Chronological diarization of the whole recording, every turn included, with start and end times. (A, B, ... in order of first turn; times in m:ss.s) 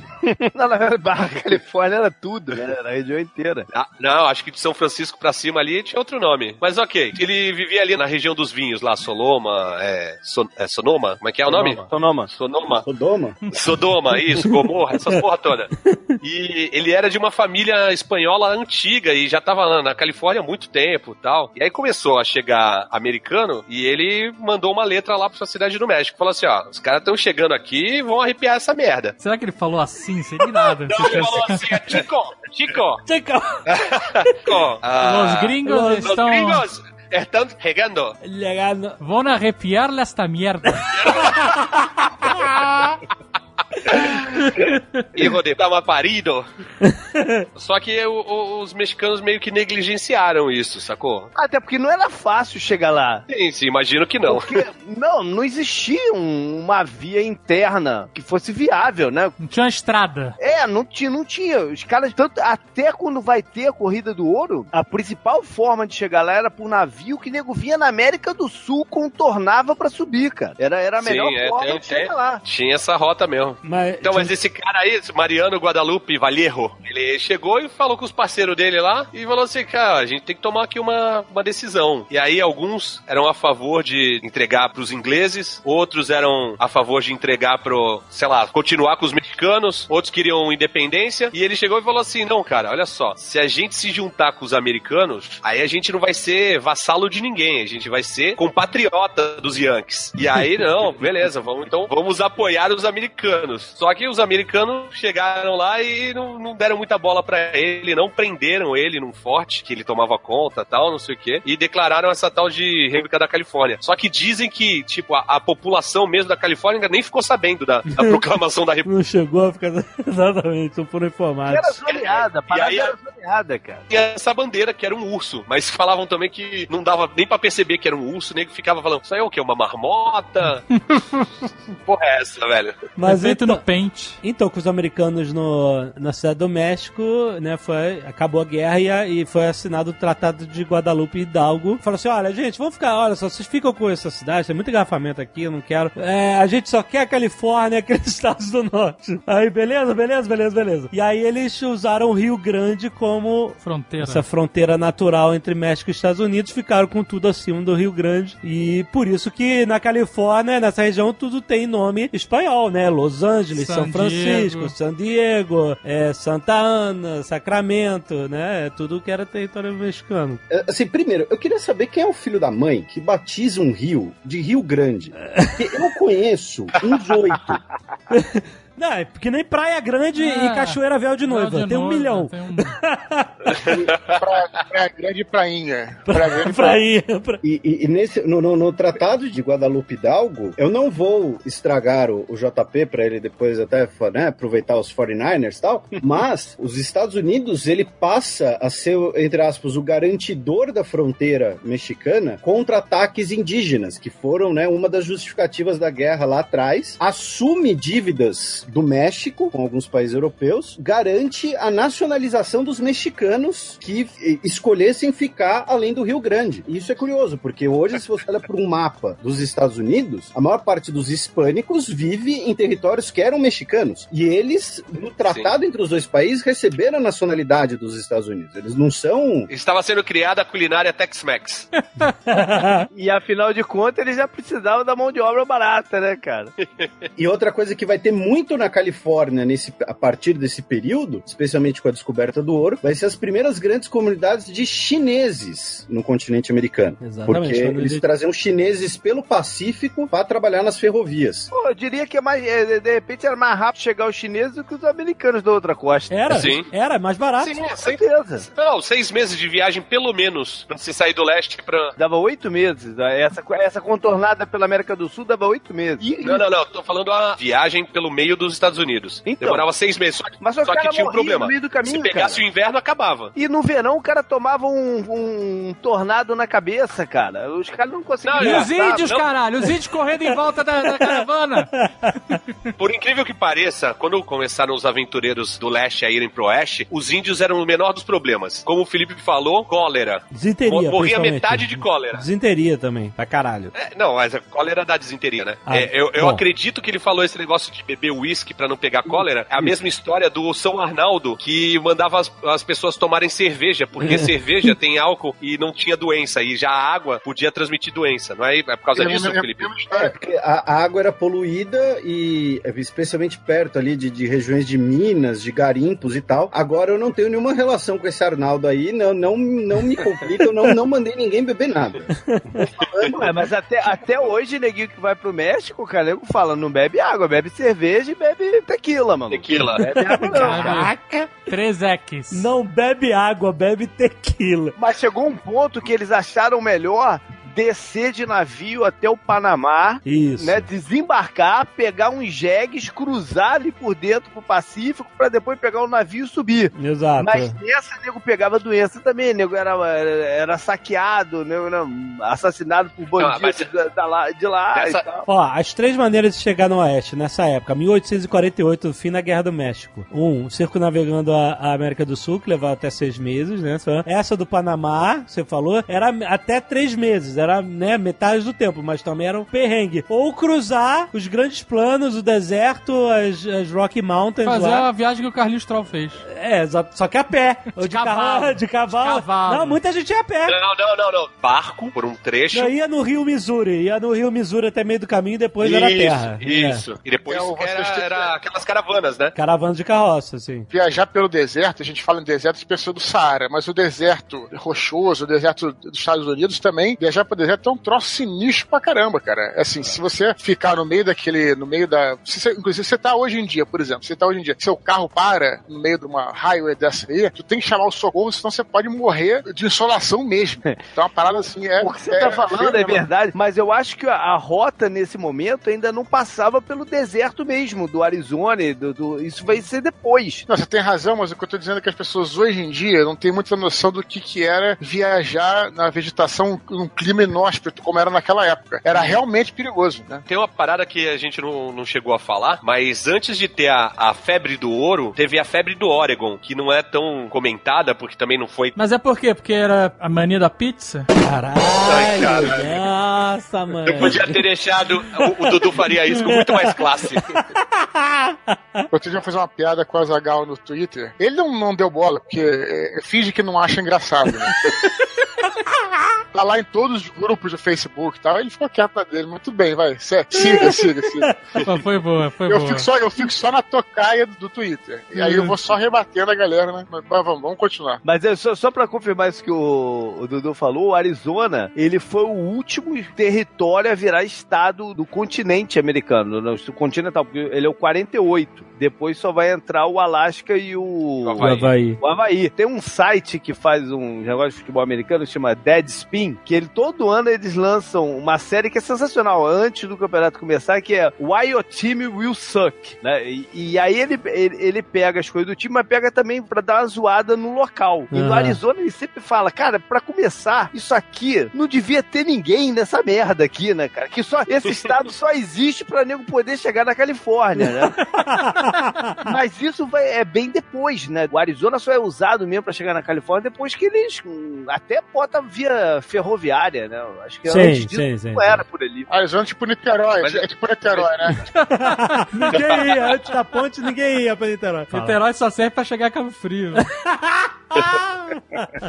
0:00.2-0:03.7 A
0:03.7-0:12.8 B
0:11.5-0:12.3 A
0:12.8-0:13.4 C
0:13.5-0:29.2 B
0:29.2-0:32.0 D
0:30.9-0:33.0 B
0:33.0-0:34.5 E
0:33.7-0:38.2 B
0:35.0-0:36.6 D
0:35.6-0:36.1 E
0:38.2-0:39.0 E
0:39.0-0:41.3 D
0:41.0-0:41.6 B
0:41.1-0:41.5 E
0:42.2-0:42.9 E
0:43.9-0:46.4 B
0:46.8-0:47.4 E
0:47.5-0:51.3 B
0:51.3-0:53.2 A
0:53.3-0:54.6 B
0:54.2-0:59.4 A
0:59.4-1:00.4 D
1:00.4-1:12.4 A
1:11.0-1:58.9 B
1:13.6-1:14.3 E
1:58.8-2:01.8 E
2:01.5-2:03.8 A
2:01.8-2:02.9 B
2:03.9-2:10.6 B
2:11.8-2:12.8 B
2:13.0-2:13.6 E
2:13.0-2:14.2 D
2:14.2-2:50.4 E
2:33.6-2:34.2 D
2:43.5-2:44.7 D
2:50.5-2:57.6 C
2:58.1-3:03.6 E
3:00.2-3:02.7 D
3:04.0-3:06.8 F
3:06.1-3:07.4 E
3:07.4-3:49.5 C
3:45.2-3:45.5 B
3:49.5-3:51.7 B
3:51.9-3:52.8 D
3:52.3-3:52.8 E
3:52.9-3:56.5 A
3:56.6-3:56.9 B
3:57.2-4:11.5 C
4:07.0-4:08.0 E
4:11.5-4:16.4 A
4:16.1-4:17.6 E
4:16.3-4:16.7 B
4:17.4-4:22.0 B
4:17.8-4:18.5 A
4:22.0-4:26.5 A
4:26.2-4:33.3 B
4:29.2-4:29.6 A
4:30.4-4:32.4 A
4:33.3-4:39.1 A
4:38.2-4:39.2 B
4:38.4-4:41.7 D
4:41.8-4:42.2 E
4:42.8-4:52.2 B
4:50.3-4:53.7 E
4:53.7-5:09.7 B
4:55.7-4:56.4 E
5:09.0-5:10.1 F
5:09.9-5:22.1 C
5:22.3-5:22.6 E
5:22.8-5:23.2 B
5:22.8-5:23.3 C
5:23.0-5:30.8 A
5:29.3-5:30.6 B
5:29.9-5:31.3 E
5:30.3-5:32.5 D
5:32.3-5:34.8 E
5:34.8-5:55.3 A
5:40.0-5:40.6 E
5:46.7-5:47.6 E
5:53.2-5:53.7 B
5:54.7-5:55.0 B
5:55.3-6:14.9 E
6:14.4-6:16.2 D
6:16.2-6:20.6 E
6:17.8-6:19.8 D
6:20.5-6:22.7 B
6:22.5-6:26.8 E
6:25.6-6:29.3 B
6:27.3-6:28.3 F
6:29.3-6:30.7 E
6:30.7-6:53.1 F
6:51.8-7:00.5 A
7:00.5-7:10.2 F
7:08.9-7:09.2 B
7:10.3-7:18.8 B
7:18.8-7:21.1 D
7:21.2-7:24.4 E
7:21.8-7:22.7 B
7:23.9-7:27.3 B
7:26.1-7:26.7 E
7:27.3-7:28.8 E
7:28.9-7:34.8 F
7:36.3-7:41.3 F
7:40.3-7:41.4 E
7:41.6-7:42.9 D
7:42.5-7:48.0 F
7:48.0-8:28.0 A
8:01.2-8:01.7 B
8:01.4-8:02.0 E
8:18.1-8:18.6 E
8:28.0-8:29.1 E
8:29.2-8:39.1 A
8:37.5-8:38.6 E
8:39.1-8:41.5 F
8:41.7-8:45.2 E
8:41.8-8:42.3 D
8:44.9-8:46.9 D
8:46.8-8:48.7 E